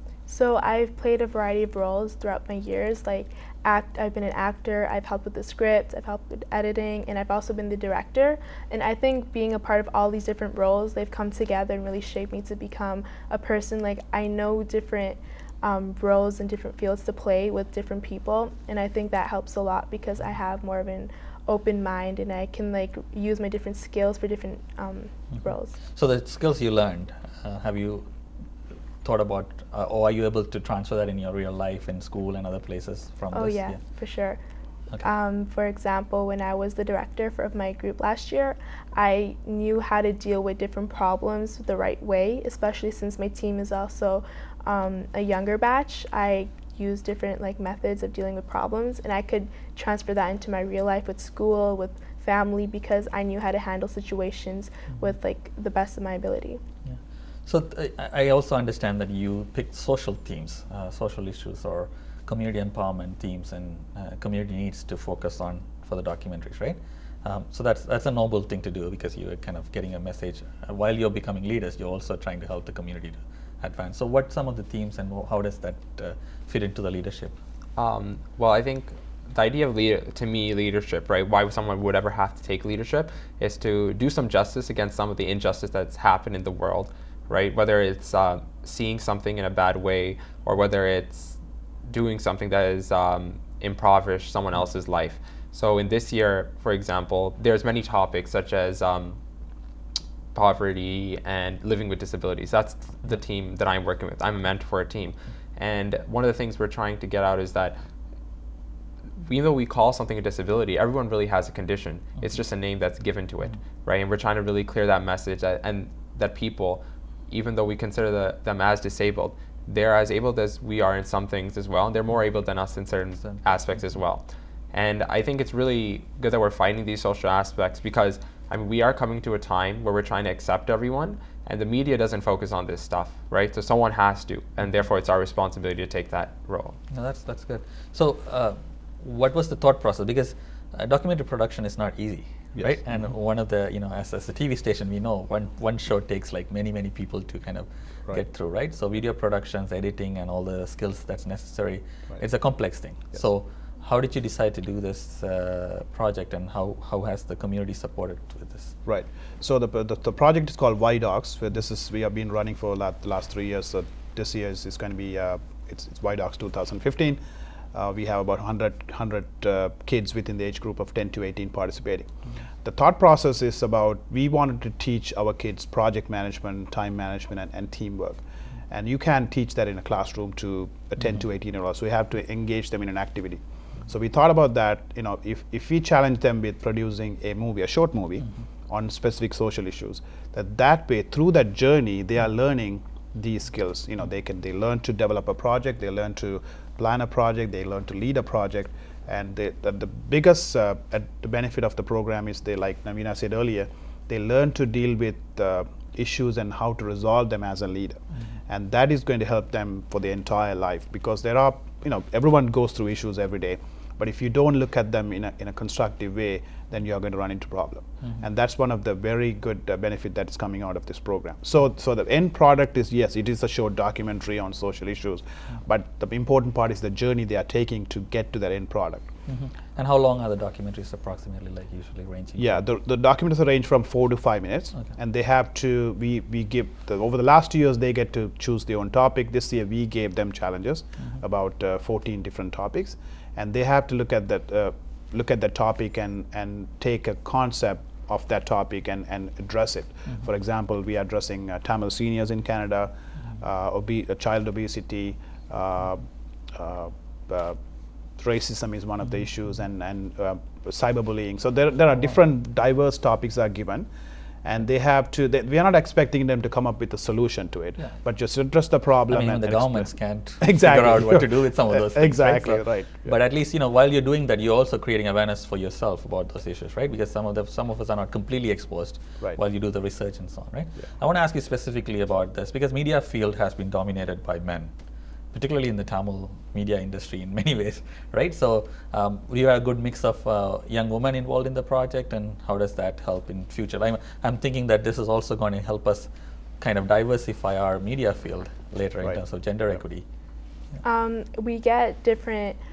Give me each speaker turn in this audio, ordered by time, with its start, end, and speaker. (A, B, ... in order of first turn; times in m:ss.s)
0:00.3-0:25.8 A
0:25.3-0:28.0 B
0:29.0-0:33.8 B
0:33.3-0:34.4 A
0:35.0-0:56.6 A
0:56.8-1:17.3 B
1:17.8-1:39.2 C
1:40.3-1:47.8 C
1:49.2-2:16.8 C
2:03.2-2:03.7 B
2:16.9-2:38.8 B
2:38.8-2:47.2 D
2:47.7-2:52.1 D
2:52.6-3:49.1 D
3:49.3-3:52.6 B
3:52.4-4:23.9 D
4:01.0-4:01.2 B
4:24.4-4:33.2 D
4:29.1-4:44.7 B
4:45.3-4:56.1 B
4:56.6-5:00.0 B
5:00.8-5:02.6 A